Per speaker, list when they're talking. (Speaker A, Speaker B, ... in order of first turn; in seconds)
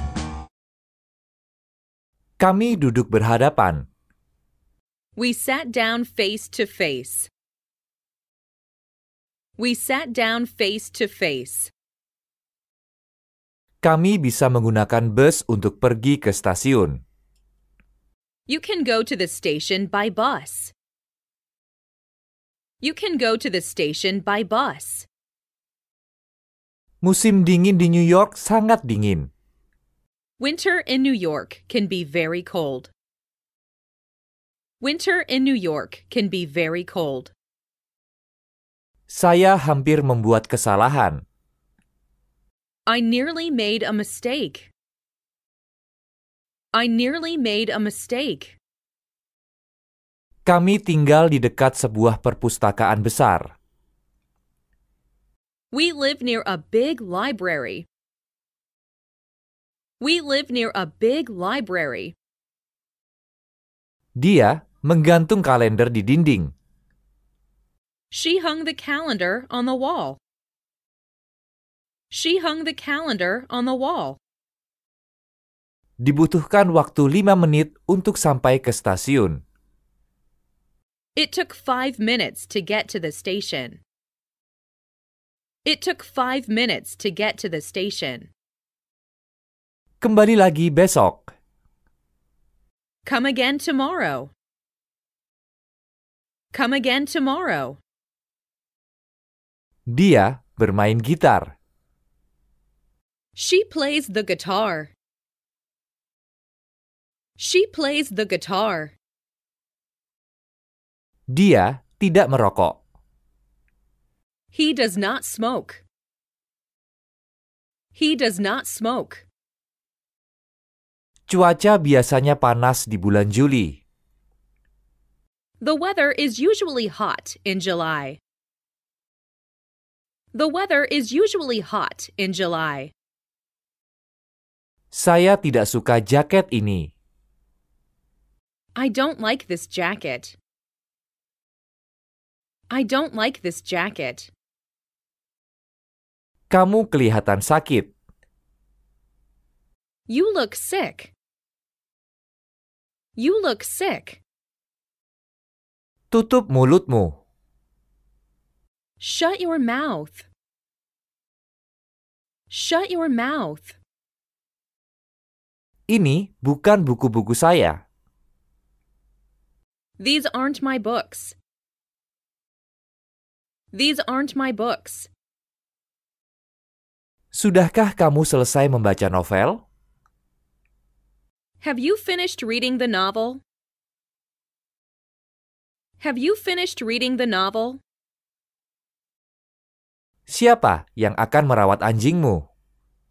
Speaker A: 2.4-3.9, 13.8-17.0, 27.0-29.3, 39.1-41.2, 50.5-53.5, 64.2-66.5, 76.0-79.4, 90.0-91.3, 99.9-101.5, 111.3-112.8, 121.3-123.8, 134.9-136.9, 146.5-147.9, 156.1-157.2, 165.9-167.8, 177.3-179.6, 190.3-192.4
Speaker B: 5.2-7.3, 9.6-11.7, 18.5-20.7, 22.8-25.1, 30.4-32.9, 34.8-37.3, 42.9-44.7, 46.7-48.6, 55.7-57.9, 60.0-62.2, 68.1-70.2, 72.1-74.2, 81.2-83.8, 85.6-88.3, 93.0-94.3, 96.5-97.8, 103.4-104.9, 107.4-109.0, 114.5-115.8, 117.9-119.2, 125.6-128.2, 130.3-132.9, 138.8-140.3, 142.7-144.3, 150.1-151.1, 153.2-154.2, 159.0-160.3, 162.5-163.8, 170.0-171.4, 173.7-175.1, 181.6-183.4, 186.0-187.8